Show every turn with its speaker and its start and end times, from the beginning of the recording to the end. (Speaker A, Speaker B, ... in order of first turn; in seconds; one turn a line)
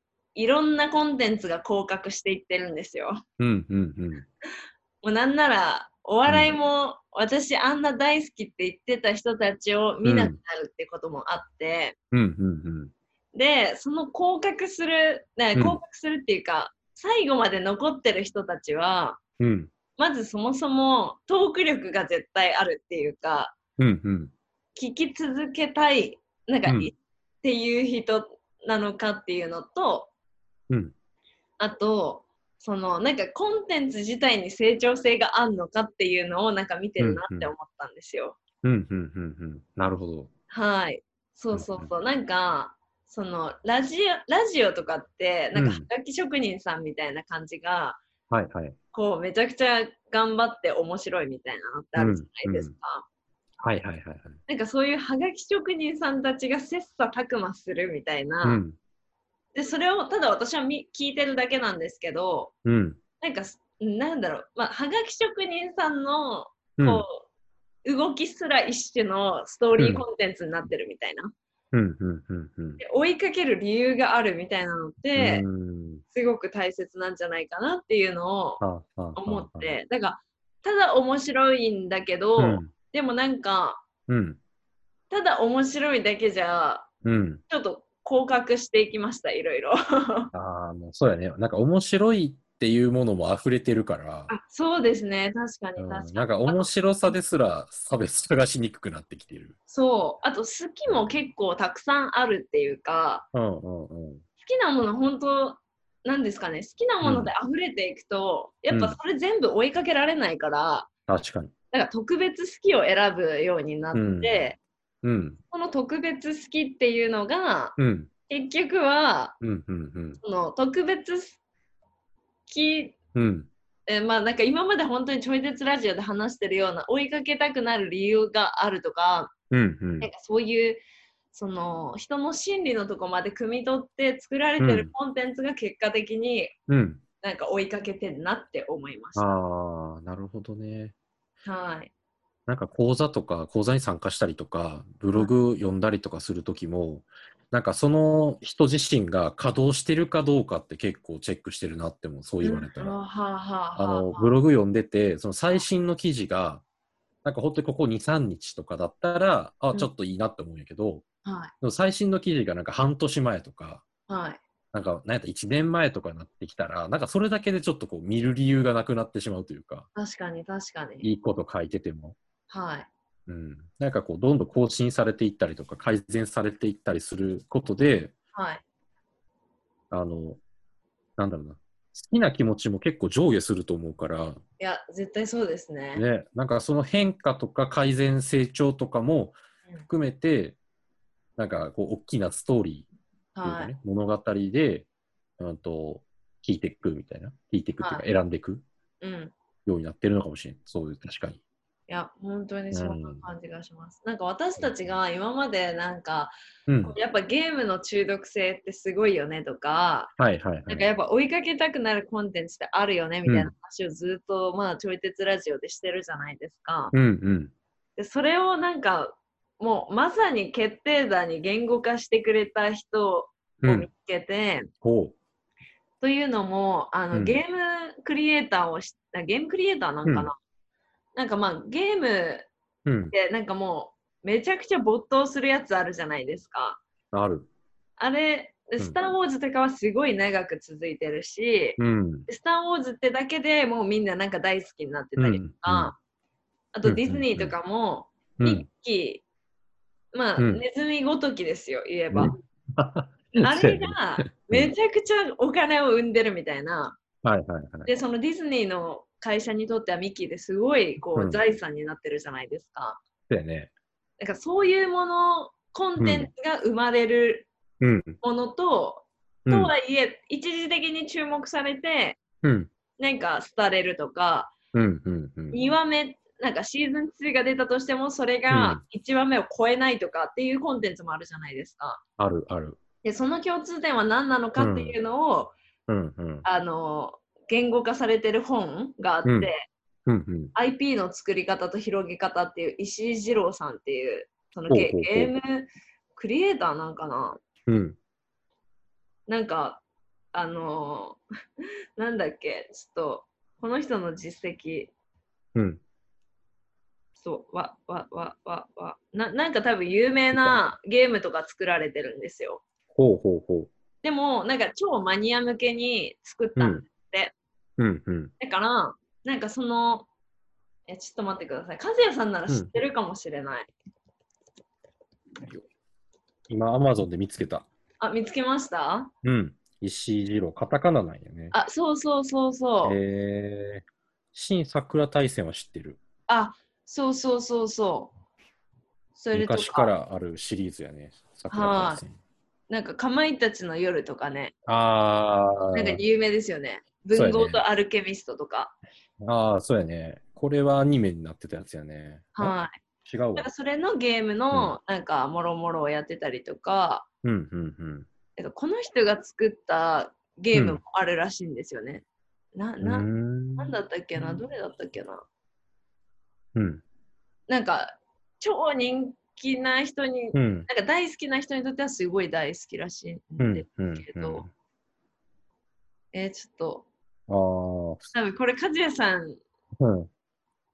Speaker A: 0.3-3.2
Speaker B: 3.4-4.2
Speaker A: 5.0-11.9
Speaker B: 6.3-6.5
Speaker B: 10.0-10.4
Speaker B: 12.1-12.9
Speaker A: 13.3-19.2
Speaker B: 15.5-15.8
Speaker B: 19.4-19.7
Speaker A: 19.9-23.6
Speaker B: 23.8-24.3
Speaker A: 24.8-30.1
Speaker B: 26.6-26.9
Speaker A: 31.6-38.4
Speaker B: 37.0-37.5
Speaker B: 38.6-40.3
Speaker A: 40.5-48.0
Speaker B: 41.5-41.9
Speaker B: 45.5-45.9
Speaker B: 48.3-48.8
Speaker A: 48.9-53.0
Speaker B: 52.0-52.7
Speaker B: 53.6-54.4
Speaker A: 54.5-58.6
Speaker B: 58.4-58.8
Speaker A: 59.5-62.5
Speaker B: 62.6-63.0
Speaker A: 63.2-67.2
Speaker B: 66.8-67.0
Speaker A: 67.8-71.3
Speaker B: 69.8-70.0
Speaker B: 71.7-72.8
Speaker A: 72.8-75.4
Speaker B: 75.1-76.0
Speaker A: 76.1-78.6
Speaker B: 78.6-79.7
Speaker A: 79.1-83.8
Speaker B: 82.4-82.7
Speaker B: 84.1-84.4
Speaker A: 85.1-86.9
Speaker B: 87.0-87.4
Speaker A: 87.5-90.3
Speaker B: 90.3-94.3
Speaker A: 94.3-96.7
Speaker B: 95.8-99.5
Speaker A: 99.7-103.2
Speaker B: 103.3-104.2
Speaker A: 104.4-110.9
Speaker B: 107.0-107.3
Speaker B: 108.7-109.0
Speaker B: 111.1-111.5
Speaker A: 111.7-114.6
Speaker B: 113.9-114.5
Speaker B: 115.0-115.4
Speaker A: 115.5-117.8
Speaker B: 117.8-118.1
Speaker A: 118.3-119.3
Speaker B: 119.4-120.2
Speaker A: 120.2-121.4
Speaker A: 122.5-123.0
Speaker B: 123.1-123.5
Speaker A: 123.9-129.3
Speaker B: 129.5-130.1
Speaker A: 130.0-130.8
Speaker A: 131.3-136.6
Speaker B: 134.6-134.9
Speaker B: 136.7-137.0
Speaker A: 137.2-139.4
Speaker B: 139.1-140.9
Speaker A: 141.4-141.9
Speaker B: 142.5-152.9
Speaker A: 152.4-154.3
Speaker B: 153.8-156.6
Speaker B: 157.2-161.0
Speaker A: 161.2-161.5
Speaker B: 161.6-163.8
Speaker A: 164.1-164.4
Speaker B: 164.7-169.9
Speaker A: 169.9-171.1
Speaker B: 171.0-172.2
Speaker A: 172.5-172.9
Speaker B: 173.3-178.1
Speaker A: 178.3-178.6
Speaker B: 179.9-180.4
Speaker B: 181.2-184.4
Speaker A: 184.6-186.1
Speaker B: 185.9-190.6
Speaker B: 191.4-192.9
Speaker A: 193.3-193.7
Speaker B: 193.4-194.9
Speaker B: 195.4-198.6
Speaker A: 199.0-199.3
Speaker B: 199.7-201.4
Speaker A: 201.9-210.1
Speaker B: 202.7-203.3
Speaker B: 206.7-206.9
Speaker B: 210.2-210.9
Speaker A: 210.7-216.9
Speaker B: 213.2-213.5
Speaker B: 216.9-217.5
Speaker A: 218.0-224.7
Speaker B: 223.6-223.9
Speaker B: 224.8-225.1
Speaker A: 226.0-230.3
Speaker B: 227.1-227.4
Speaker B: 230.0-230.3
Speaker A: 231.2-232.5
Speaker B: 232.8-233.1
Speaker A: 233.1-236.8
Speaker B: 237.1-237.5
Speaker A: 238.0-245.9
Speaker B: 241.8-242.3
Speaker B: 245.2-245.9
Speaker A: 246.7-249.2
Speaker B: 246.8-247.5
Speaker B: 248.4-248.7
Speaker A: 250.1-252.3
Speaker B: 250.4-250.6
Speaker B: 252.1-254.7
Speaker A: 253.4-257.0
Speaker B: 257.2-257.9
Speaker A: 257.8-263.0
Speaker B: 261.1-261.4
Speaker B: 263.3-263.7
Speaker A: 264.2-267.5
Speaker B: 266.0-266.3
Speaker B: 267.8-268.2
Speaker A: 268.2-272.2
Speaker B: 269.4-269.7
Speaker B: 272.4-272.7
Speaker A: 273.0-274.5
Speaker B: 274.7-275.6
Speaker A: 275.5-282.0
Speaker B: 278.5-278.8
Speaker B: 282.2-282.8
Speaker A: 283.0-285.5
Speaker B: 284.6-284.9
Speaker B: 285.9-286.4
Speaker A: 286.4-289.6
Speaker B: 289.2-289.5
Speaker B: 290.1-290.5
Speaker A: 290.5-297.4
Speaker B: 294.7-295.3
Speaker B: 297.7-297.9
Speaker A: 299.3-299.8
Speaker A: 300.3-301.2
Speaker A: 302.0-304.9
Speaker B: 305.5-305.8
Speaker A: 307.2-312.6
Speaker B: 310.3-310.6
Speaker B: 312.9-313.7
Speaker A: 314.0-317.3
Speaker B: 316.6-316.8
Speaker B: 317.8-318.3
Speaker A: 318.4-320.1
Speaker A: 320.9-323.7
Speaker B: 322.5-322.8
Speaker B: 326.5-327.6
Speaker A: 328.0-329.1
Speaker B: 329.2-331.5
Speaker A: 331.5-333.0
Speaker B: 332.8-336.0
Speaker A: 336.3-338.1
Speaker A: 339.1-339.9
Speaker B: 339.3-342.1
Speaker A: 341.5-342.0
Speaker A: 342.7-344.5
Speaker B: 344.6-346.0
Speaker A: 345.7-348.8
Speaker B: 347.1-347.6
Speaker B: 349.2-352.5
Speaker A: 352.4-352.7
Speaker B: 353.1-353.5
Speaker A: 353.4-357.1
Speaker B: 357.2-358.1
Speaker A: 358.4-362.0
Speaker B: 360.5-360.8
Speaker A: 362.5-365.2
Speaker B: 362.8-364.4
Speaker B: 366.5-366.8
Speaker A: 367.5-374.4
Speaker B: 370.3-370.7
Speaker B: 373.4-374.5
Speaker A: 376.1-376.8
Speaker B: 377.3-378.1
Speaker A: 378.1-379.4
Speaker B: 379.8-380.1